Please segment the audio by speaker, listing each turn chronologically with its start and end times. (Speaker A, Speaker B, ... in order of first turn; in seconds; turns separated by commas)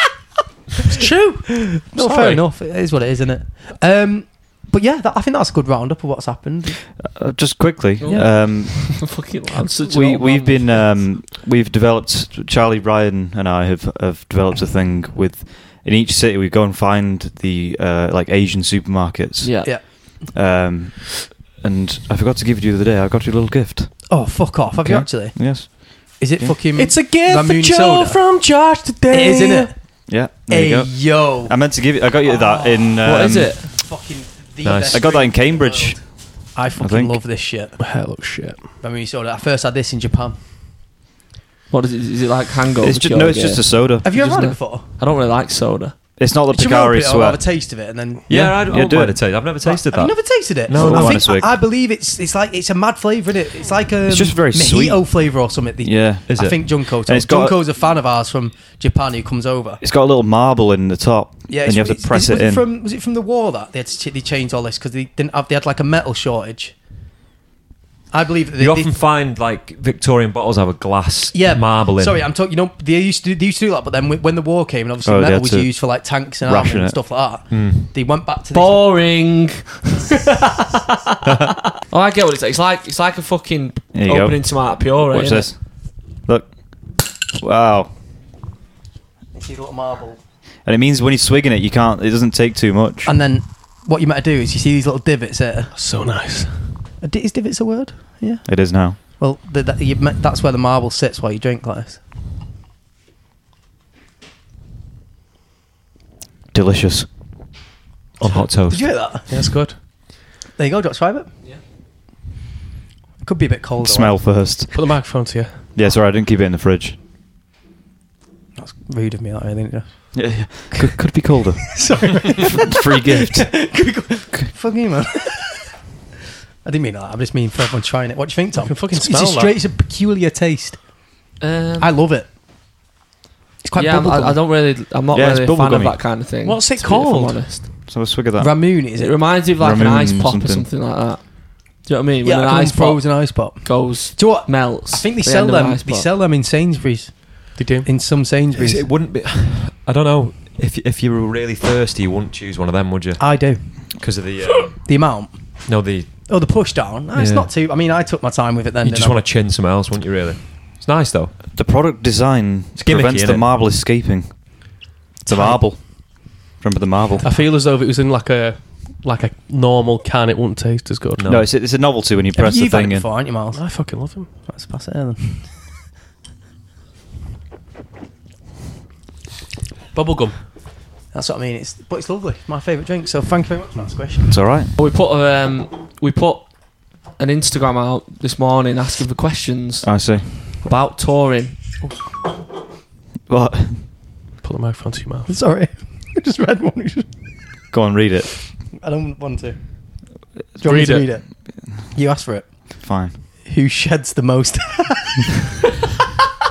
Speaker A: 0.9-1.5, Speaker B: 1.4-6.8, Speaker A: 2.0-2.4, Speaker C: 7.0-26.2, Speaker D: 8.0-11.1, Speaker D: 19.4-19.7, Speaker B: 19.6-20.2, Speaker B: 24.1-28.2, Speaker A: 26.7-29.7, Speaker B: 29.1-31.6, Speaker C: 30.1-33.6, Speaker B: 32.2-37.8, Speaker D: 33.0-33.7, Speaker E: 34.6-35.3, Speaker C: 34.9-37.2, Speaker A: 37.8-38.7, Speaker B: 38.8-40.4, Speaker D: 41.7-46.0, Speaker C: 42.8-44.1, Speaker B: 44.0-44.8, Speaker C: 46.2-47.4, Speaker B: 46.5-48.6, Speaker E: 48.3-51.3, Speaker C: 48.3-49.4, Speaker B: 49.6-59.8, Speaker C: 50.7-51.6, Speaker C: 54.1-55.2, Speaker C: 55.8-57.6, Speaker E: 56.3-56.7, Speaker C: 59.8-62.7, Speaker B: 61.5-66.8, Speaker B: 68.1-69.0, Speaker E: 68.6-72.3, Speaker B: 71.3-78.8, Speaker C: 75.0-77.3, Speaker E: 77.5-77.9, Speaker D: 78.5-80.5, Speaker D: 81.8-85.5, Speaker C: 83.9-87.9, Speaker B: 89.3-90.2, Speaker C: 90.7-93.1, Speaker B: 93.0-95.7, Speaker A: 95.7-96.8, Speaker B: 97.0-102.0, Speaker C: 98.5-99.0, Speaker C: 106.5-107.1, Speaker E: 108.2-109.0, Speaker B: 108.3-109.4, Speaker A: 109.3-109.8, Speaker B: 110.5-111.3, Speaker B: 113.2-114.4, Speaker C: 113.8-115.0, Speaker A: 114.7-115.7, Speaker C: 115.8-117.0, Speaker B: 118.6-121.0, Speaker C: 120.1-123.7, Speaker B: 121.7-125.7, Speaker B: 126.6-132.3, Speaker A: 128.5-129.6, Speaker D: 131.4-131.9, Speaker B: 133.6-134.4, Speaker D: 133.8-137.7, Speaker C: 135.1-136.0, Speaker A: 136.4-137.6, Speaker C: 137.9-138.8, Speaker B: 138.4-139.2, Speaker D: 139.0-146.1, Speaker C: 139.5-140.7, Speaker B: 142.2-148.9, Speaker A: 147.5-147.9, Speaker E: 148.5-154.9, Speaker B: 153.2-154.2, Speaker B: 154.8-159.3, Speaker E: 155.7-156.5, Speaker E: 157.1-157.5, Speaker E: 158.8-161.3, Speaker C: 161.5-167.3, Speaker E: 162.8-163.7, Speaker B: 165.3-165.7, Speaker A: 167.2-171.4, Speaker E: 171.2-171.6, Speaker C: 171.2-173.1, Speaker B: 172.3-175.7, Speaker A: 173.5-174.4, Speaker A: 179.9-180.4, Speaker B: 181.1-184.4, Speaker C: 184.3-184.7, Speaker D: 184.8-191.8, Speaker C: 189.8-190.3, Speaker C: 193.3-193.9, Speaker A: 194.4-195.3, Speaker B: 195.3-197.3, Speaker C: 197.7-198.5, Speaker B: 198.7-202.8, Speaker A: 200.6-201.1, Speaker C: 202.8-203.2, Speaker B: 203.4-205.4